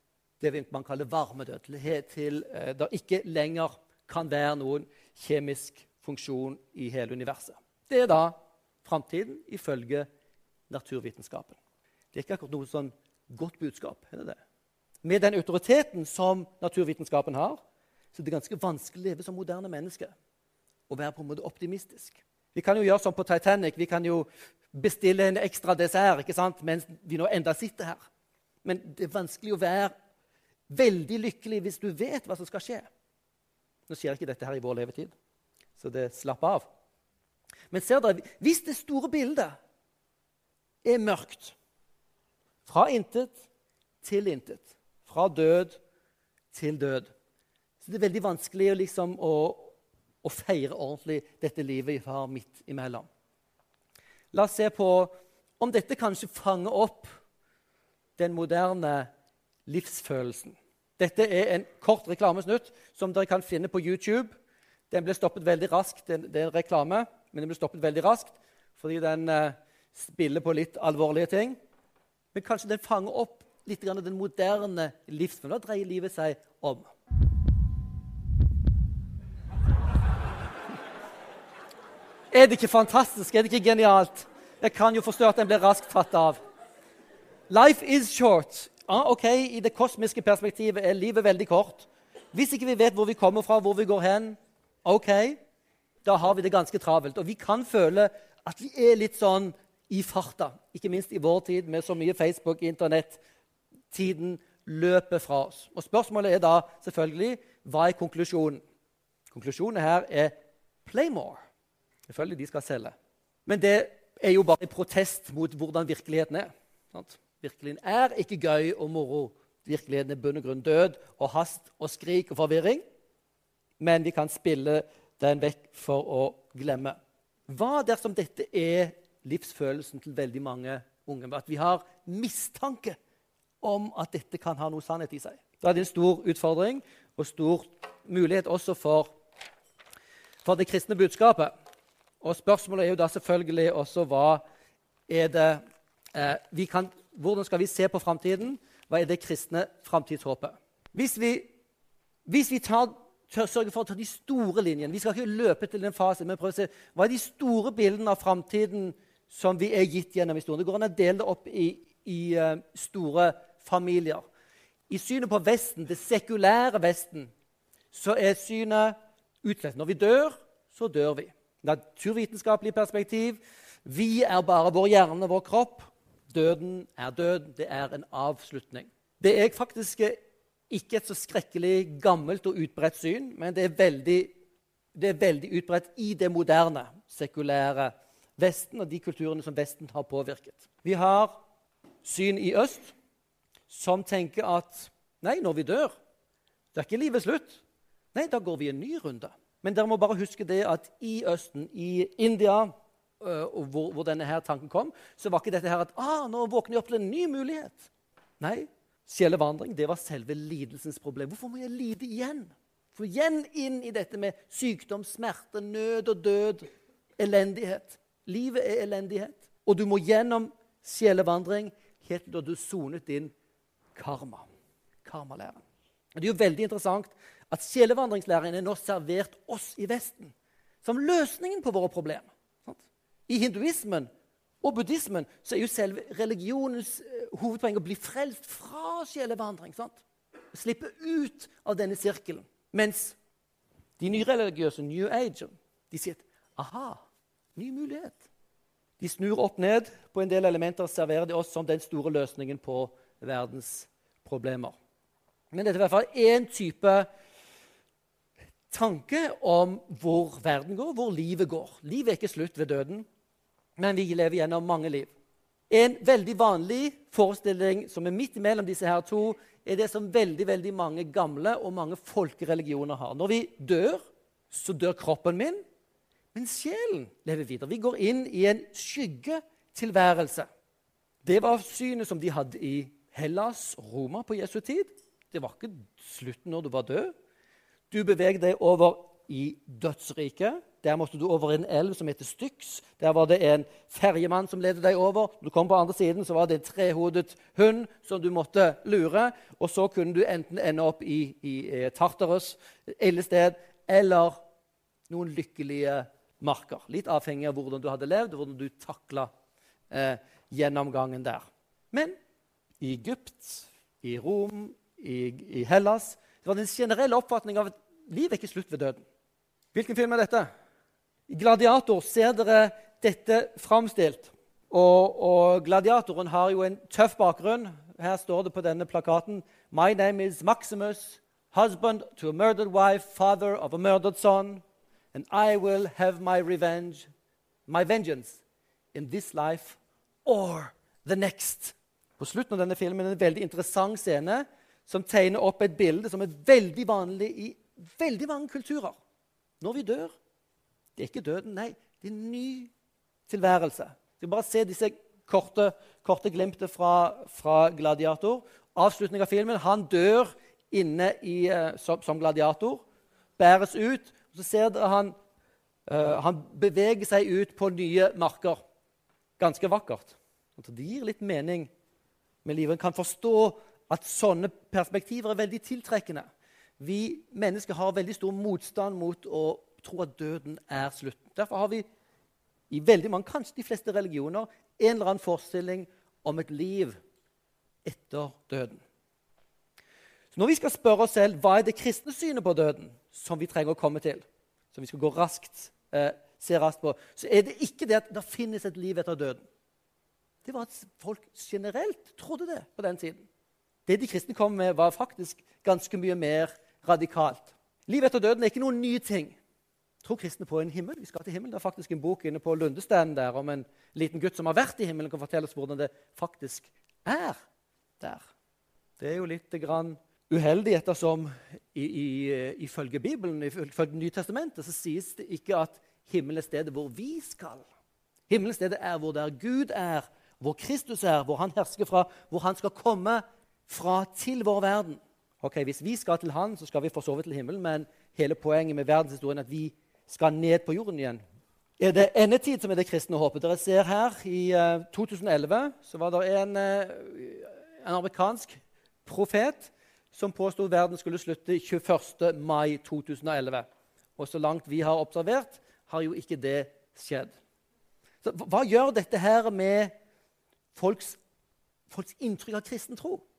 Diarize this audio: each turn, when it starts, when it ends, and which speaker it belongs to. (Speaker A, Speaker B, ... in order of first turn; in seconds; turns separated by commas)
Speaker A: 0.4-10.1, Speaker A: 10.7-11.6, Speaker A: 12.1-14.4, Speaker A: 15.0-17.6, Speaker A: 18.1-20.1, Speaker A: 20.9-28.0, Speaker A: 28.6-29.9, Speaker A: 30.7-32.9, Speaker A: 33.9-35.1, Speaker A: 35.8-36.6, Speaker A: 37.7-39.6, Speaker A: 40.8-41.5, Speaker A: 42.6-43.5, Speaker A: 44.0-45.8, Speaker A: 46.5-47.1, Speaker A: 47.8-53.1, Speaker A: 54.3-57.1, Speaker A: 58.2-59.1, Speaker A: 59.7-64.3, Speaker A: 64.9-71.6, Speaker A: 72.3-76.9, Speaker A: 82.3-86.4, Speaker A: 87.5-95.4, Speaker A: 96.0-103.2, Speaker A: 103.9-108.6, Speaker A: 109.3-111.4, Speaker A: 112.1-112.9, Speaker A: 113.5-122.8, Speaker A: 123.8-127.0, Speaker A: 127.5-133.0, Speaker A: 133.6-139.1, Speaker A: 140.4-141.5, Speaker A: 142.2-144.4, Speaker A: 145.1-145.6, Speaker A: 146.1-151.5, Speaker A: 152.2-164.2, Speaker A: 164.9-167.3, Speaker A: 167.9-180.2, Speaker A: 180.7-184.3, Speaker A: 184.9-191.3, Speaker A: 192.0-192.9, Speaker A: 193.7-195.9, Speaker A: 196.7-197.6, Speaker A: 198.1-207.9, Speaker A: 208.4-223.3, Speaker A: 223.9-224.5, Speaker A: 225.0-225.6, Speaker A: 226.2-234.1, Speaker A: 234.6-240.0, Speaker A: 240.5-243.2, Speaker A: 244.0-247.0, Speaker A: 247.6-248.2, Speaker A: 249.0-254.8, Speaker A: 255.5-257.1, Speaker A: 258.7-263.1, Speaker A: 263.8-265.1, Speaker A: 265.7-275.6, Speaker A: 276.3-280.5, Speaker A: 281.2-287.1, Speaker A: 287.9-304.4, Speaker A: 305.1-309.3, Speaker A: 309.9-312.1, Speaker A: 312.8-319.0, Speaker A: 319.7-320.5, Speaker A: 321.3-337.1, Speaker A: 337.7-338.4, Speaker A: 338.9-349.0, Speaker A: 349.6-350.1, Speaker A: 350.9-352.7, Speaker A: 353.3-362.8, Speaker A: 363.4-365.1, Speaker A: 365.9-368.6, Speaker A: 369.4-371.7, Speaker A: 372.4-376.3, Speaker A: 376.8-381.8, Speaker A: 382.7-387.0, Speaker A: 387.8-388.8, Speaker A: 390.3-399.4, Speaker A: 400.4-403.2, Speaker A: 403.9-409.4, Speaker A: 410.0-417.4, Speaker A: 418.0-418.3, Speaker A: 419.0-427.6, Speaker A: 428.3-441.2, Speaker A: 441.8-457.3, Speaker A: 458.2-459.9, Speaker A: 460.7-461.2, Speaker A: 461.9-463.2